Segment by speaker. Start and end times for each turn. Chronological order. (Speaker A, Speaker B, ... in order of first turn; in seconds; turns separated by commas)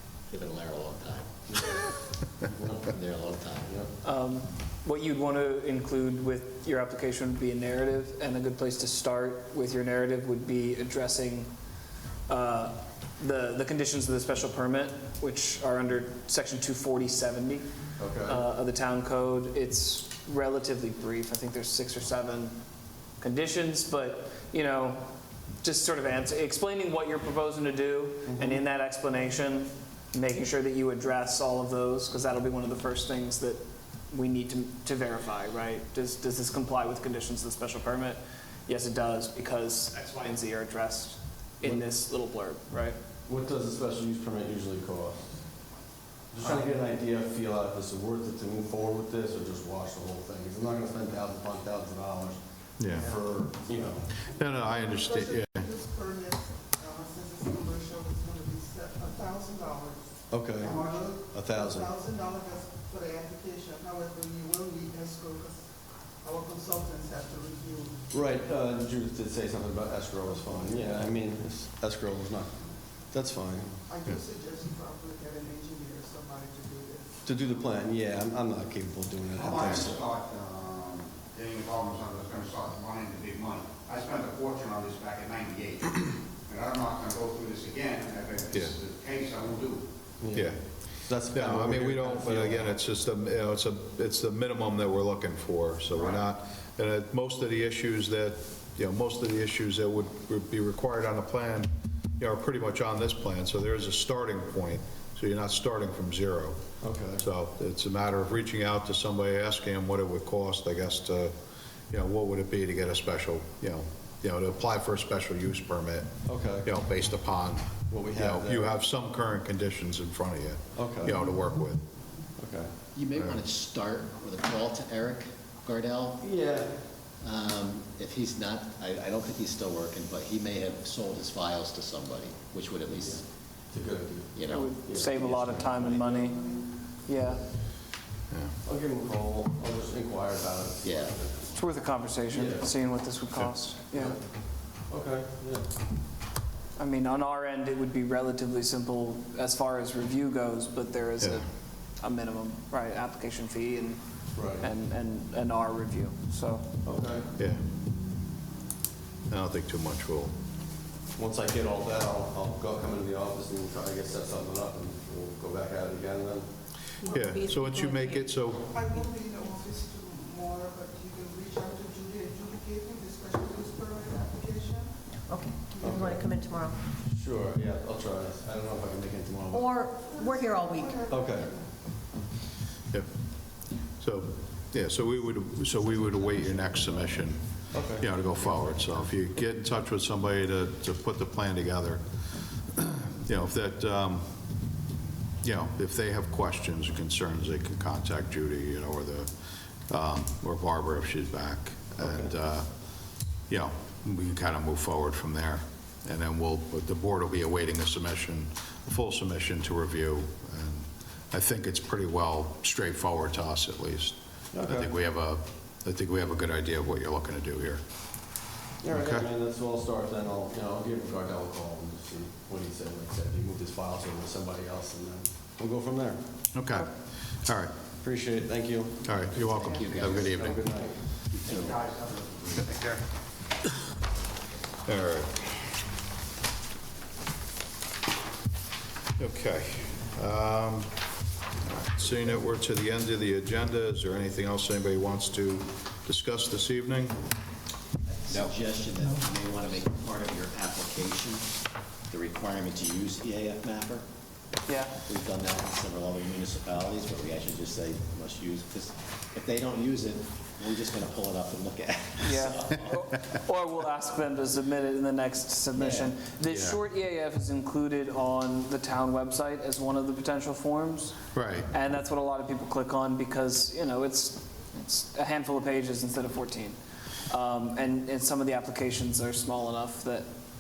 Speaker A: 0.3-1.8, Speaker B: 2.4-2.9, Speaker A: 2.8-3.8, Speaker C: 4.0-11.5, Speaker C: 12.3-17.6, Speaker B: 18.0-18.4, Speaker C: 18.2-22.5, Speaker C: 23.2-25.1, Speaker C: 25.6-43.0, Speaker B: 28.3-28.6, Speaker B: 43.2-45.4, Speaker B: 46.3-54.1, Speaker D: 52.8-53.1, Speaker D: 54.2-55.7, Speaker E: 54.9-60.1, Speaker B: 60.3-62.0, Speaker E: 60.6-65.6, Speaker E: 66.2-68.0, Speaker B: 68.1-72.6, Speaker B: 73.1-73.8, Speaker E: 73.9-77.2, Speaker B: 77.2-80.0, Speaker F: 79.3-89.8, Speaker B: 90.2-92.8, Speaker D: 91.2-106.6, Speaker F: 95.9-96.2, Speaker B: 106.8-107.2, Speaker D: 107.2-111.3, Speaker D: 111.9-121.8, Speaker B: 116.2-116.7, Speaker B: 117.9-118.8, Speaker B: 120.8-121.2, Speaker B: 122.4-122.7, Speaker A: 122.9-126.2, Speaker B: 126.2-126.8, Speaker A: 127.2-133.2, Speaker B: 132.9-133.2, Speaker B: 133.7-135.2, Speaker A: 134.3-136.2, Speaker C: 134.5-136.5, Speaker C: 137.1-137.4, Speaker B: 138.6-141.5, Speaker A: 140.8-141.1, Speaker C: 141.5-144.2, Speaker B: 142.3-142.7, Speaker B: 143.9-144.2, Speaker B: 144.9-145.7, Speaker C: 146.8-151.5, Speaker C: 152.0-154.0, Speaker B: 154.3-154.7, Speaker C: 154.5-156.7, Speaker B: 156.8-157.3, Speaker D: 157.3-157.6, Speaker D: 159.3-160.3, Speaker B: 161.2-166.5, Speaker G: 167.0-168.3, Speaker E: 167.0-167.3, Speaker D: 167.1-168.8, Speaker E: 168.7-175.0, Speaker G: 175.3-176.8, Speaker E: 175.7-176.0, Speaker B: 175.8-176.2, Speaker B: 177.0-179.7, Speaker G: 179.5-181.1, Speaker E: 180.0-181.7, Speaker B: 181.1-181.5, Speaker D: 184.0-192.0, Speaker B: 187.7-188.1, Speaker D: 192.5-194.3, Speaker D: 195.4-199.3, Speaker D: 199.9-202.7, Speaker B: 202.0-202.3, Speaker D: 203.5-217.8, Speaker B: 214.5-214.9, Speaker B: 218.8-226.2, Speaker D: 218.9-219.3, Speaker D: 226.5-227.7, Speaker B: 228.0-229.1, Speaker D: 229.0-230.6, Speaker A: 229.2-230.7, Speaker B: 230.1-231.0, Speaker A: 231.3-231.8, Speaker F: 231.4-233.0, Speaker D: 234.8-235.7, Speaker D: 239.2-240.9, Speaker D: 241.7-247.2, Speaker A: 248.3-251.5, Speaker A: 252.1-254.0, Speaker C: 254.7-255.0, Speaker A: 255.0-262.9, Speaker C: 262.2-271.1, Speaker A: 265.7-266.2, Speaker D: 266.4-266.8, Speaker D: 271.3-271.7, Speaker C: 271.7-276.8, Speaker C: 277.3-280.3